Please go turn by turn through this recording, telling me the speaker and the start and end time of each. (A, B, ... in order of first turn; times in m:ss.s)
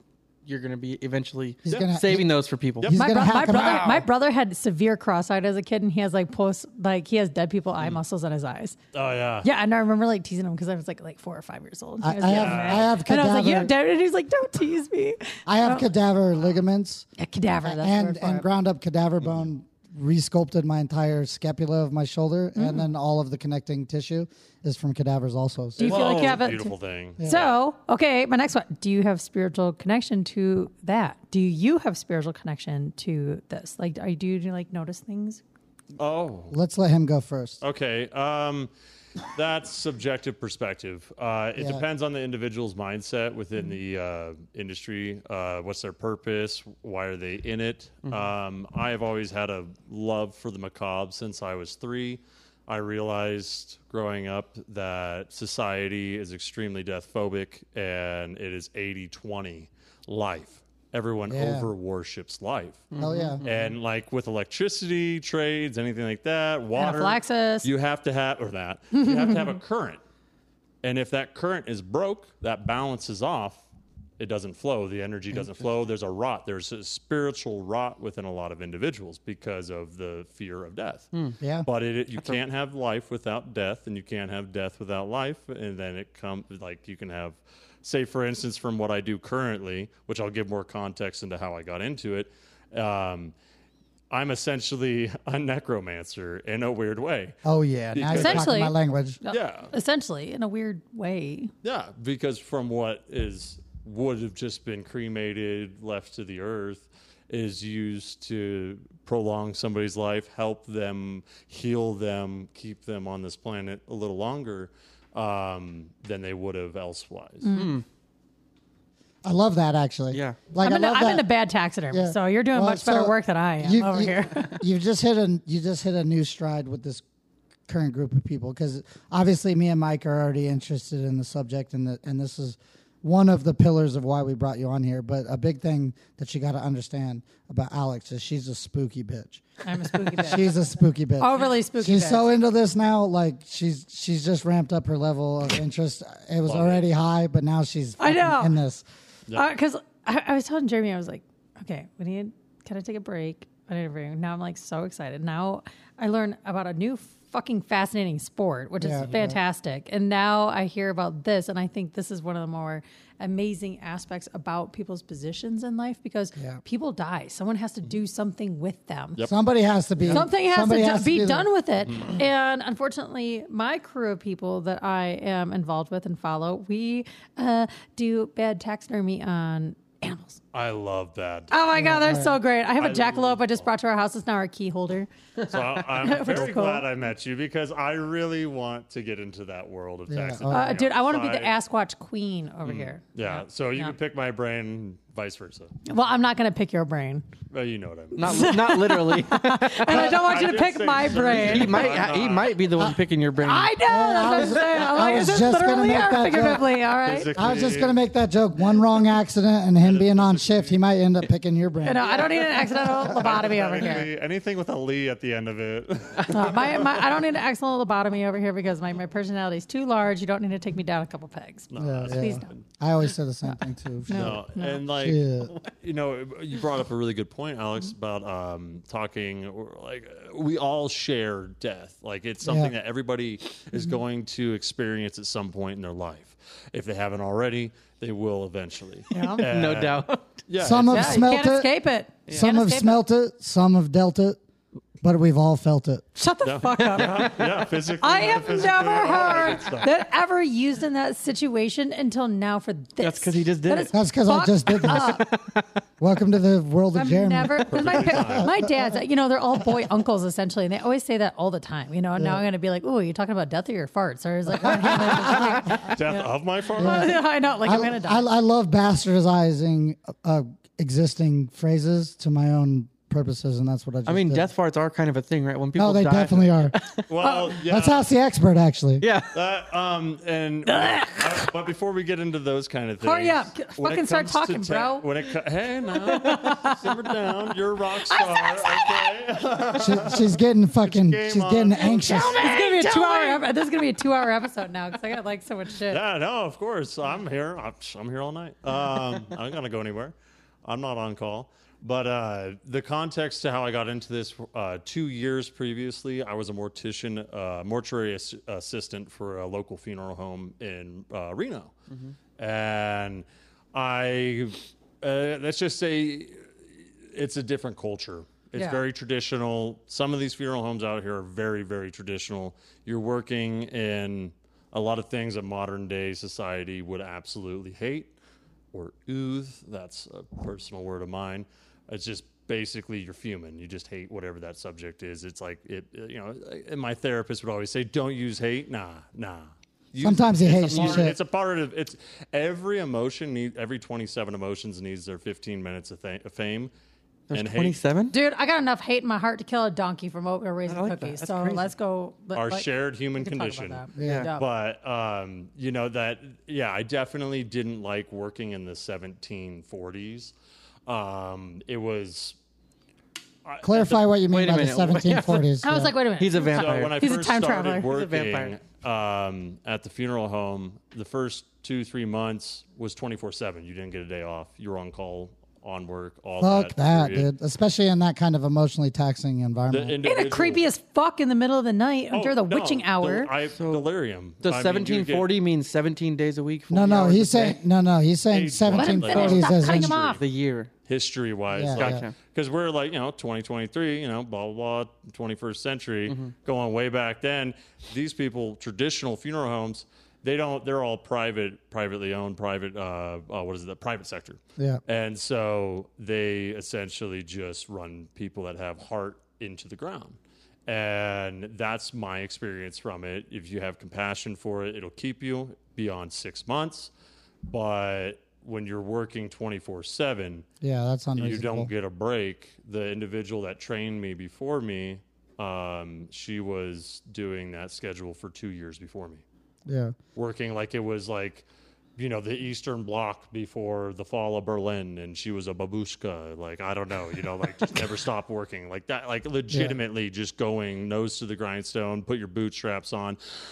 0:00.4-0:04.0 A
0:01.6-0:02.3 B
0:02.8-0:03.0 C
0:02.9-0:04.0 B
0:02.9-0:08.8 D
0:08.9-0:09.5 C
0:09.4-0:15.9 D
0:12.0-0:13.7 B
0:12.2-0:13.0 C
0:15.5-0:17.0 B
0:17.2-0:18.4 D
0:17.6-0:26.3 B
0:19.2-0:19.5 C
0:22.5-0:22.8 D
0:25.8-0:35.4 D
0:25.8-0:27.5 C
0:27.2-0:27.5 B
0:36.0-0:36.6 C
0:36.5-0:37.6 B
0:37.6-0:38.7 C
0:39.2-1:02.9 C
0:41.6-0:41.8 B
1:01.3-1:01.7 B
1:02.9-1:03.7 A
1:03.0-1:03.4 B
1:03.4-1:10.0 C
1:06.8-1:07.7 D
1:08.9-1:09.5 D
1:10.8-1:13.6 C
1:14.2-1:21.1 C
1:21.4-1:21.6 B
1:21.6-1:33.3 C
1:34.1-1:37.4 C
1:37.4-1:39.2 B
1:37.9-1:38.6 C
1:38.1-1:41.5 D
1:39.3-1:39.7 C
1:41.6-1:57.5 C
1:57.4-1:57.8 D
1:57.5-1:57.8 A
1:59.2-2:01.2 B
2:00.1-2:00.4 A
2:00.6-2:04.6 D
2:01.9-2:07.0 B
2:07.7-2:19.4 B
2:19.6-2:20.6 D
2:20.2-2:28.8 B
2:21.2-2:22.3 D
2:26.4-2:26.8 C
2:28.0-2:28.6 D
2:29.3-2:49.3 D
2:38.8-2:39.4 B
2:46.4-2:46.6 B
2:49.3-2:51.5 B
2:50.1-3:00.4 D
3:00.5-3:02.0 C
3:01.5-3:05.1 D
3:01.8-3:02.4 B
3:02.7-3:03.6 C
3:05.5-3:11.5 C
3:06.0-3:06.8 D
3:10.1-3:10.7 B
3:10.5-3:13.9 D
3:12.6-3:15.7 C
3:15.8-3:17.2 D
3:17.5-3:18.5 C
3:18.1-3:20.1 A
3:18.3-3:22.0 D
3:19.8-3:22.7 C
3:21.3-3:23.7 A
3:23.4-3:27.3 D
3:23.8-3:26.7 B
3:27.0-3:28.0 C
3:27.4-3:32.2 B
3:29.8-3:30.7 C
3:31.8-3:34.1 D
3:32.4-3:36.9 C
3:36.2-3:42.4 D
3:41.7-3:42.6 C
3:41.8-3:44.4 B
3:43.4-3:44.8 D
3:44.1-3:45.2 C
3:45.0-3:45.5 B
3:45.8-4:01.3 C
3:52.4-3:52.7 B
3:59.1-3:59.4 D
3:59.1-4:00.3 A
4:00.6-4:01.7 B
4:00.9-4:03.0 D
4:02.3-4:04.4 B
4:05.0-4:06.1 B
4:06.2-4:07.4 D
4:06.4-4:09.9 C
4:06.8-4:07.2 A
4:08.0-4:15.3 D
4:13.0-4:14.0 A
4:13.9-4:15.3 B
4:14.7-4:15.6 A
4:16.0-4:18.9 B
4:16.9-4:28.2 D
4:17.7-4:18.5 C
4:22.2-4:22.4 B
4:24.6-4:25.8 B
4:25.8-4:27.2 C
4:26.8-4:34.4 B
4:34.0-4:37.0 A
4:35.8-4:36.7 B
4:37.1-4:38.1 C
4:37.2-4:37.5 D
4:37.6-4:39.0 B
4:39.0-4:39.3 A
4:39.3-4:52.9 C
4:40.6-4:41.4 D
4:43.0-4:45.0 D
4:46.1-4:46.9 D
4:48.1-4:49.1 D
4:49.8-4:52.4 B
4:52.0-4:56.0 D
4:52.5-4:53.3 A
4:55.9-5:11.7 C
5:11.9-5:12.2 A
5:12.4-5:28.1 C
5:18.5-5:18.8 D
5:28.7-5:46.7 C
5:40.0-5:41.2 B
5:40.7-5:41.0 A
5:47.3-5:48.1 A
5:47.3-5:47.8 C
5:48.1-5:54.4 D
5:50.7-5:51.6 A
5:52.3-6:00.3 C
5:54.0-5:54.3 B
5:54.0-5:54.3 A
6:00.8-6:02.4 C
6:03.4-6:04.1 C
6:03.6-6:05.9 B
6:04.3-6:05.5 A
6:05.6-6:07.9 D
6:06.2-6:06.9 A
6:06.5-6:17.3 C
6:07.8-6:08.5 A
6:16.4-6:20.0 B
6:19.7-6:20.6 C
6:20.0-6:23.3 D
6:22.1-6:25.3 C
6:23.5-6:23.8 A
6:24.4-6:27.6 A
6:26.7-6:30.1 B
6:28.3-6:30.2 C
6:28.7-6:30.2 D
6:29.1-6:30.7 A
6:30.9-6:56.9 C
6:31.5-6:32.0 B
6:31.8-6:32.1 A
6:57.5-7:00.4 C
7:00.6-7:01.7 B
7:01.2-7:09.2 C
7:09.6-7:09.9 B
7:10.2-7:11.4 C
7:12.0-7:23.2 C
7:19.5-7:19.8 B